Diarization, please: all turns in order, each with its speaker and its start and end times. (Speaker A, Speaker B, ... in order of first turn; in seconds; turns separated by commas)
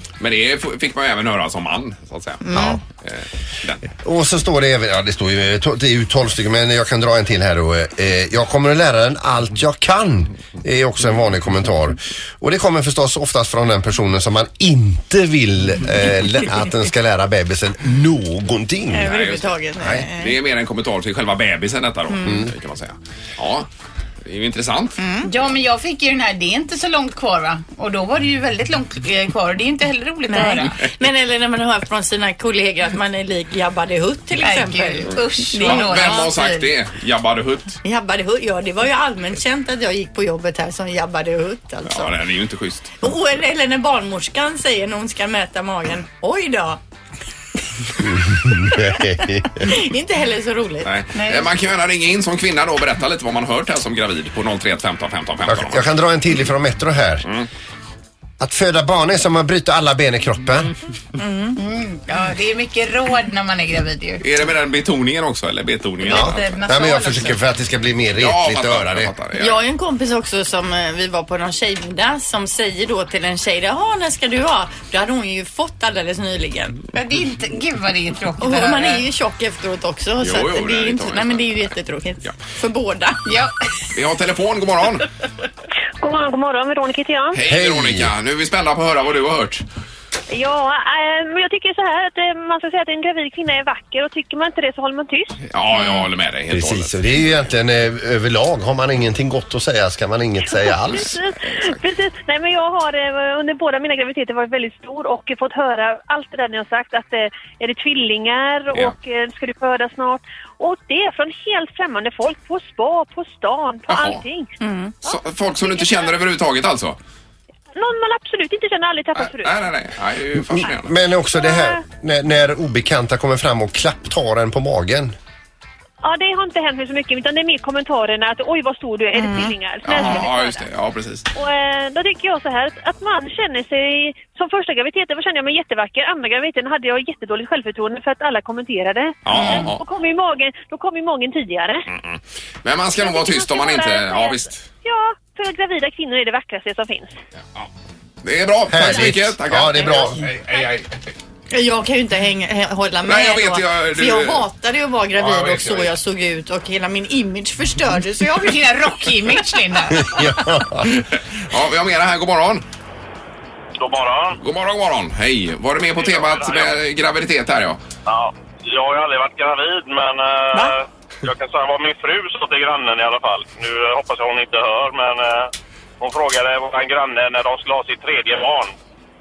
Speaker A: 0.2-3.9, Speaker B: 2.4-2.8, Speaker C: 4.0-19.2, Speaker B: 18.9-20.4, Speaker A: 19.1-19.4, Speaker C: 19.8-20.1, Speaker A: 20.2-23.7, Speaker B: 22.1-22.4, Speaker C: 22.2-22.5, Speaker A: 24.2-25.0, Speaker B: 25.0-25.3, Speaker D: 25.2-30.8, Speaker B: 30.3-36.5, Speaker D: 34.4-36.6, Speaker A: 35.1-37.8, Speaker B: 37.8-42.1, Speaker A: 41.9-43.0, Speaker B: 43.0-46.8, Speaker C: 48.0-49.7, Speaker B: 49.5-50.9, Speaker A: 50.8-55.9, Speaker D: 51.1-51.5, Speaker C: 55.5-57.3, Speaker C: 58.4-60.7, Speaker D: 61.2-64.2, Speaker A: 64.2-66.6, Speaker D: 66.0-67.4, Speaker C: 66.1-69.1, Speaker A: 68.2-69.6, Speaker B: 69.4-76.8, Speaker D: 76.9-79.1, Speaker B: 78.4-83.2, Speaker A: 80.2-81.7, Speaker D: 83.2-83.5, Speaker A: 83.9-85.1, Speaker E: 86.0-87.4, Speaker A: 87.3-89.6, Speaker C: 87.5-88.1, Speaker E: 90.3-96.0, Speaker A: 95.4-97.2, Speaker C: 96.5-101.2, Speaker E: 100.5-114.5, Speaker A: 101.4-101.8, Speaker A: 113.9-114.2, Speaker B: 114.6-115.0, Speaker A: 115.0-117.0, Speaker E: 115.7-116.1, Speaker E: 117.7-119.7, Speaker A: 119.2-120.9, Speaker C: 120.5-125.1, Speaker E: 121.3-121.8, Speaker E: 126.0-130.7, Speaker B: 129.2-129.5, Speaker A: 129.8-131.3, Speaker E: 131.3-141.9, Speaker A: 139.2-139.8, Speaker B: 139.3-139.7, Speaker A: 141.9-144.7, Speaker E: 143.0-147.2, Speaker A: 148.2-150.9, Speaker C: 148.7-150.3, Speaker B: 151.5-158.6, Speaker A: 153.1-154.4, Speaker A: 155.2-155.9, Speaker D: 158.3-160.5, Speaker C: 160.0-160.9, Speaker A: 160.8-162.6, Speaker F: 163.8-164.4, Speaker A: 164.4-167.8, Speaker F: 166.0-166.8, Speaker F: 168.1-178.7